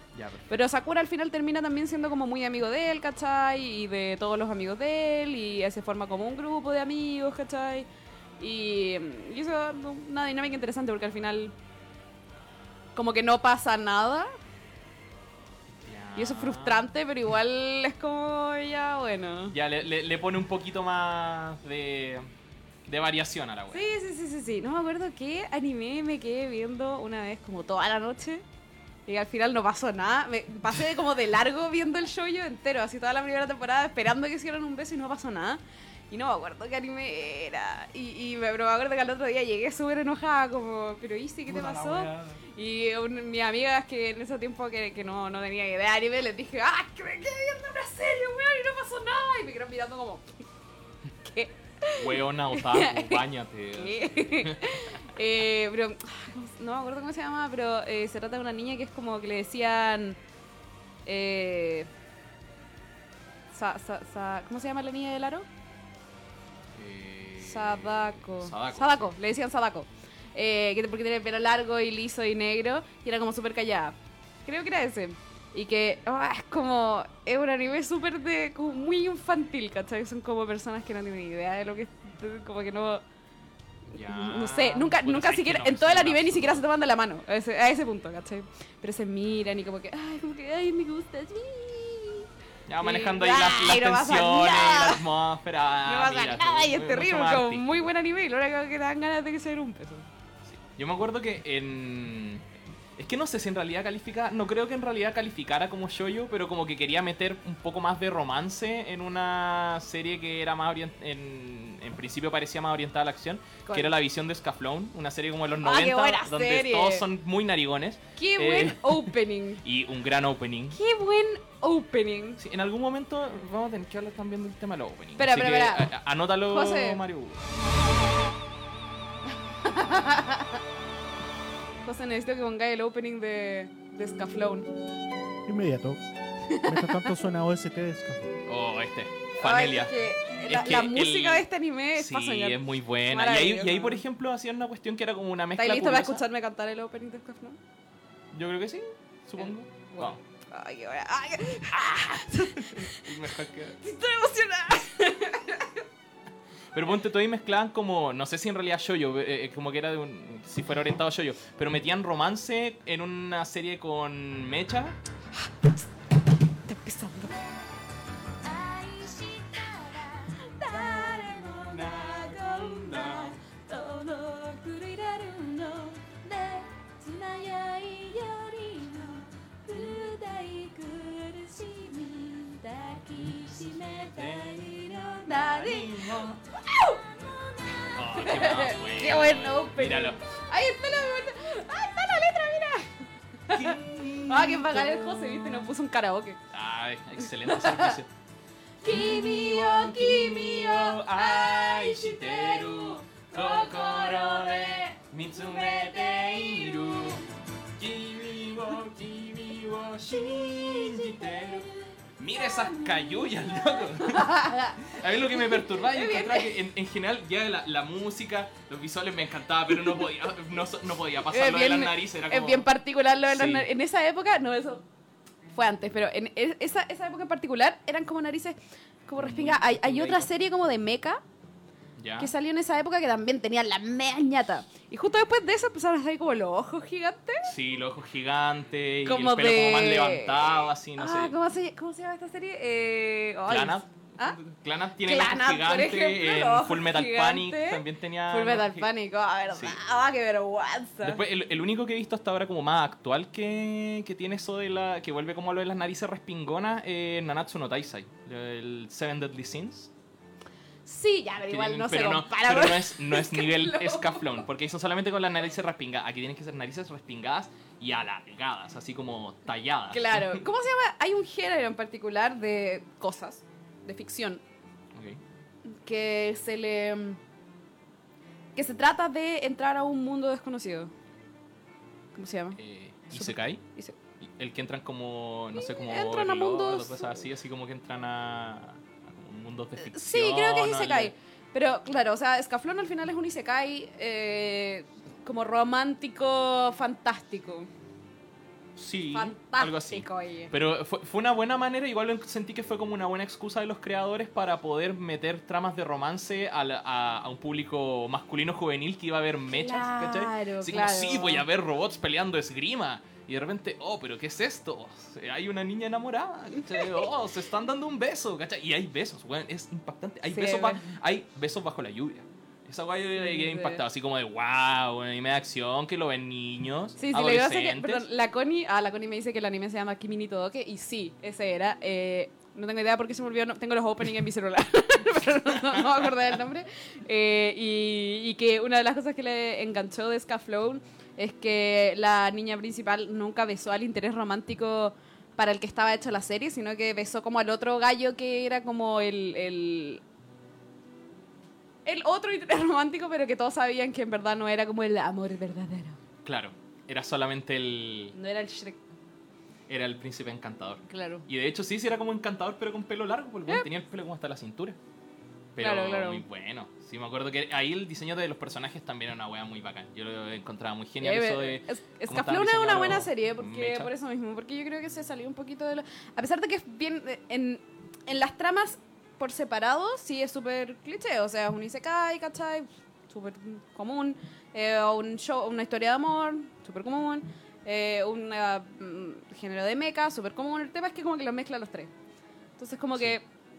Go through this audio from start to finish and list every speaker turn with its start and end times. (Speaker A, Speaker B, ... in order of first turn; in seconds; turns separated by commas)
Speaker A: 0.1-0.5, Speaker B: 0.5-7.9, Speaker B: 8.4-11.6, Speaker B: 12.9-14.3, Speaker A: 15.8-16.9, Speaker B: 16.1-19.5, Speaker A: 19.5-22.3, Speaker A: 22.9-23.9, Speaker B: 23.7-28.4, Speaker B: 29.1-50.3, Speaker A: 41.5-42.4, Speaker B: 51.2-53.2, Speaker A: 51.9-55.0, Speaker B: 53.7-60.2, Speaker B: 61.0-61.9, Speaker B: 63.5-65.5, Speaker A: 66.7-69.1, Speaker B: 67.4-83.0, Speaker B: 83.9-92.3, Speaker A: 83.9-86.6, Speaker A: 92.7-97.9, Speaker B: 92.8-95.0, Speaker B: 95.8-100.1, Speaker A: 100.4-120.8, Speaker B: 113.7-113.9, Speaker B: 115.6-117.0, Speaker B: 118.2-119.6, Speaker B: 120.7-122.4, Speaker A: 122.4-127.5, Speaker B: 125.2-125.9, Speaker B: 126.4-127.0, Speaker B: 129.6-130.6, Speaker B: 131.8-134.7, Speaker C: 135.4-136.0, Speaker B: 136.5-137.1, Speaker C: 136.5-138.3, Speaker A: 138.4-141.4, Speaker B: 139.4-144.0, Speaker A: 141.9-146.2, Speaker B: 145.6-147.6, Speaker A: 148.3-150.2, Speaker B: 149.4-153.1, Speaker A: 151.9-153.8, Speaker B: 153.8-155.8, Speaker A: 156.7-165.0, Speaker B: 166.7-167.5, Speaker B: 168.4-196.4, Speaker A: 171.5-173.4, Speaker A: 184.0-186.4, Speaker A: 187.9-190.2, Speaker A: 193.5-195.7, Speaker A: 196.5-198.1, Speaker B: 197.4-198.0, Speaker B: 198.8-207.2, Speaker A: 198.8-211.7, Speaker B: 210.3-211.6, Speaker A: 212.2-222.7, Speaker B: 212.5-212.9, Speaker B: 214.0-216.5, Speaker B: 221.3-224.8, Speaker A: 223.3-223.7, Speaker B: 225.5-231.2, Speaker A: 229.2-230.3, Speaker A: 232.0-232.3, Speaker B: 232.2-237.5, Speaker A: 237.4-241.3, Speaker B: 239.1-244.4, Speaker A: 243.4-248.9, Speaker B: 245.0-251.2, Speaker A: 249.5-249.8, Speaker A: 251.0-259.9, Speaker B: 260.9-264.4, Speaker A: 261.4-270.4, Speaker B: 269.9-274.4, Speaker A: 274.9-275.2, Speaker B: 275.7-277.2, Speaker B: 278.5-280.9, Speaker B: 282.1-282.6, Speaker A: 282.6-283.6, Speaker B: 283.1-283.9, Speaker A: 284.2-291.1, Speaker B: 285.5-287.2, Speaker B: 289.8-297.7, Speaker A: 298.8-328.1, Speaker B: 299.1-300.5, Speaker B: 309.5-311.4, Speaker B: 316.6-317.1, Speaker B: 320.3-320.9, Speaker B: 323.2-323.8, Speaker B: 327.0-350.0, Speaker B: 351.8-356.0, Speaker A: 356.2-358.1, Speaker B: 358.1-358.8, Speaker A: 359.7-364.8, Speaker B: 360.9-361.3, Speaker A: 365.5-373.9, Speaker B: 365.6-366.2, Speaker B: 371.0-391.9, Speaker B: 392.6-393.2